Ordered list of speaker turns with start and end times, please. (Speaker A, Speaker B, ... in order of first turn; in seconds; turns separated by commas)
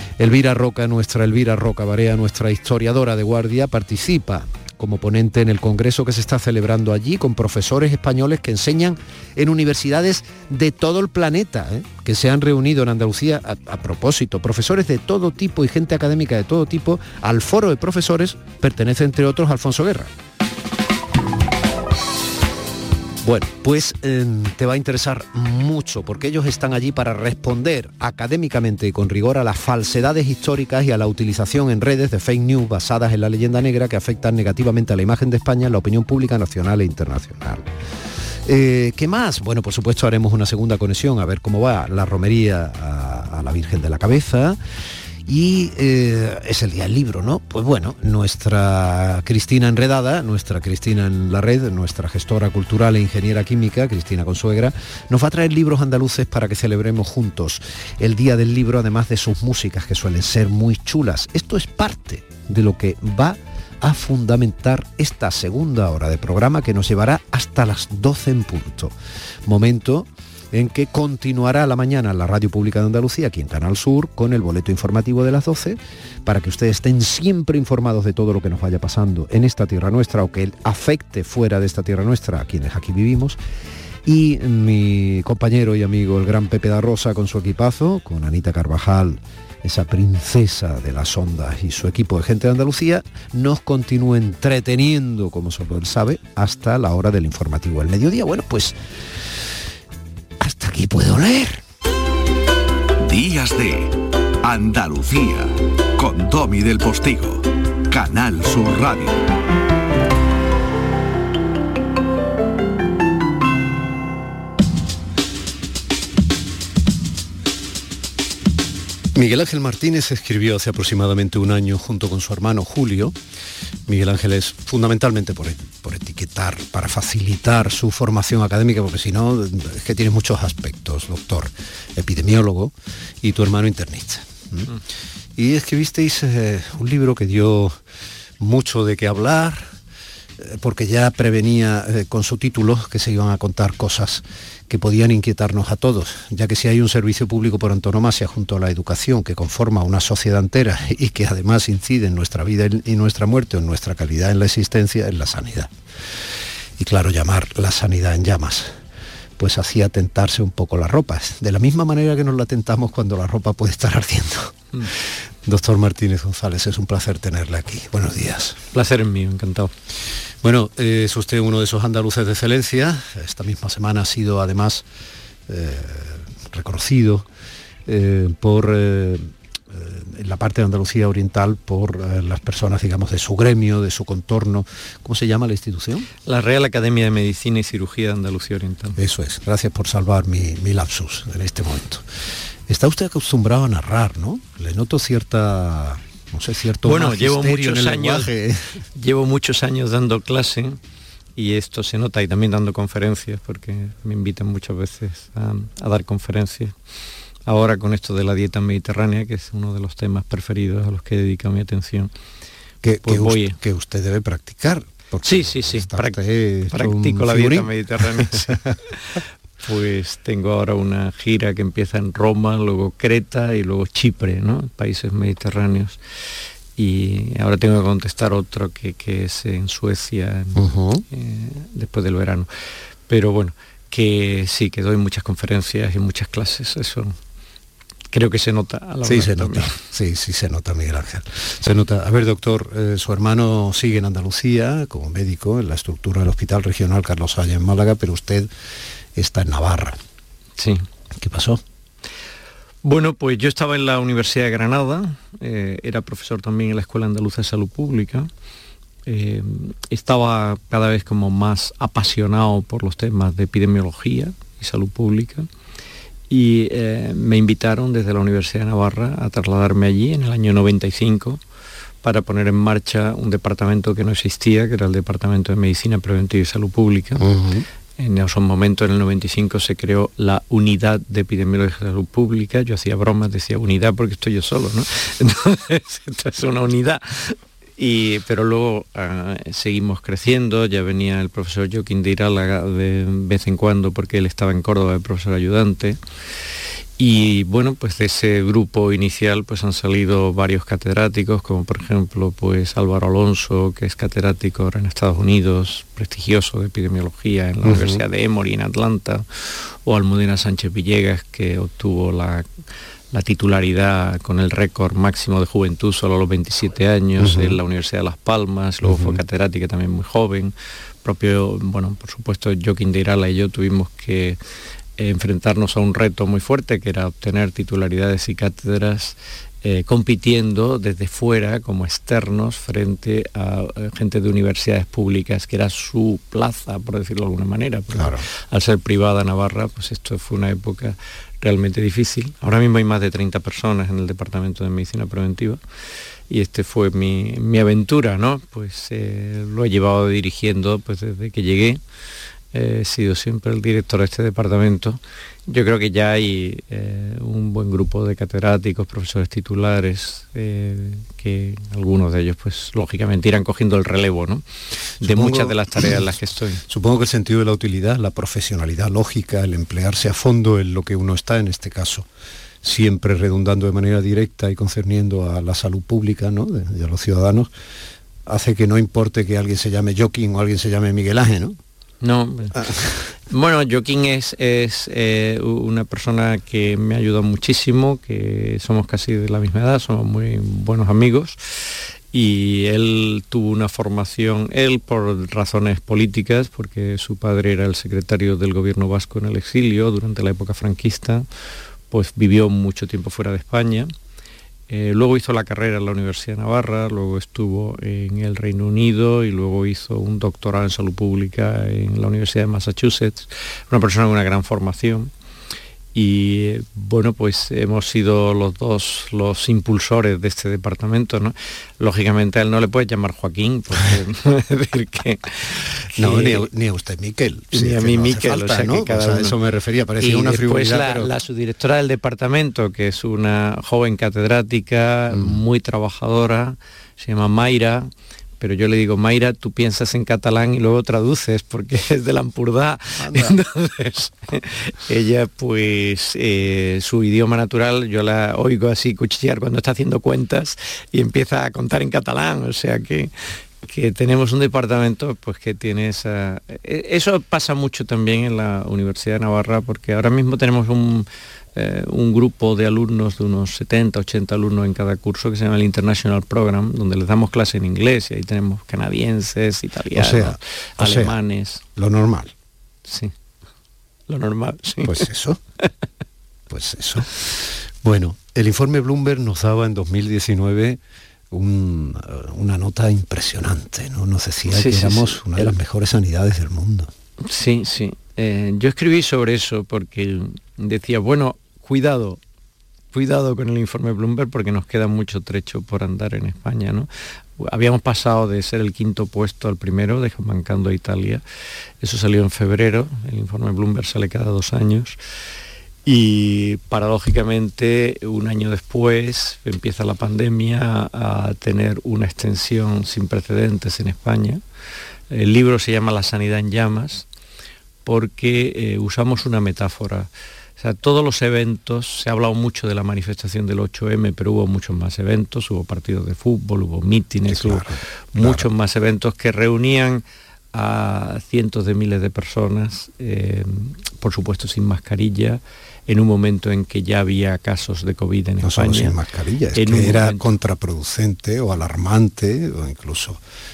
Speaker A: 0.2-20.1, Speaker A: 23.2-37.7, Speaker A: 38.4-44.6, Speaker A: 45.2-68.9, Speaker A: 69.5-83.4, Speaker A: 84.0-98.8, Speaker A: 100.4-101.6, Speaker B: 103.0-109.2, Speaker A: 119.1-123.1, Speaker A: 123.9-134.7, Speaker A: 135.3-137.8, Speaker A: 138.4-139.7, Speaker A: 140.4-155.7, Speaker A: 156.8-158.8, Speaker A: 159.4-168.6, Speaker C: 168.7-169.7, Speaker A: 170.4-174.8, Speaker A: 175.5-177.2, Speaker A: 177.8-186.1, Speaker C: 186.2-189.0, Speaker A: 189.0-192.1, Speaker A: 192.7-198.8, Speaker C: 196.8-198.3, Speaker C: 198.9-200.8, Speaker C: 201.4-206.7, Speaker C: 207.4-212.1, Speaker A: 212.8-218.7, Speaker C: 213.0-213.6, Speaker C: 215.2-216.2, Speaker C: 216.7-226.0, Speaker C: 226.8-232.5, Speaker A: 230.5-231.0, Speaker C: 233.1-237.2, Speaker C: 238.1-239.8, Speaker A: 239.0-248.5, Speaker A: 249.1-250.0, Speaker C: 250.6-250.8, Speaker A: 251.2-251.6, Speaker C: 252.8-258.3, Speaker C: 259.1-265.5, Speaker C: 266.3-271.4, Speaker C: 272.0-277.2, Speaker A: 277.2-277.6, Speaker C: 278.0-296.0, Speaker C: 297.0-312.4, Speaker A: 307.6-308.0, Speaker C: 313.1-320.5, Speaker A: 317.2-317.6, Speaker A: 318.8-319.2, Speaker C: 321.0-324.4, Speaker C: 325.0-345.6, Speaker A: 337.9-338.2, Speaker C: 346.3-351.8, Speaker C: 352.5-364.4, Speaker C: 365.0-366.6, Speaker A: 365.0-366.1, Speaker A: 366.7-372.1, Speaker A: 372.6-377.5, Speaker A: 378.2-381.6, Speaker C: 382.0-382.7, Speaker A: 382.5-383.1, Speaker C: 383.3-401.2, Speaker C: 401.9-403.9, Speaker C: 404.7-415.1, Speaker C: 415.9-426.4, Speaker A: 426.0-431.1, Speaker C: 427.5-429.3, Speaker C: 430.0-453.1, Speaker A: 435.1-435.4, Speaker A: 443.0-443.4, Speaker C: 453.6-471.6, Speaker A: 469.9-471.2, Speaker A: 471.8-472.3, Speaker C: 472.9-473.1, Speaker C: 474.1-475.1, Speaker A: 474.8-475.4, Speaker A: 476.5-480.8, Speaker A: 481.3-486.9, Speaker C: 484.5-485.5, Speaker C: 487.2-492.2, Speaker C: 492.9-501.2, Speaker C: 501.8-505.0, Speaker C: 505.8-514.4, Speaker C: 515.1-517.1, Speaker C: 517.9-530.0, Speaker A: 527.3-528.5, Speaker C: 530.5-539.0, Speaker A: 538.4-543.2, Speaker C: 539.5-540.3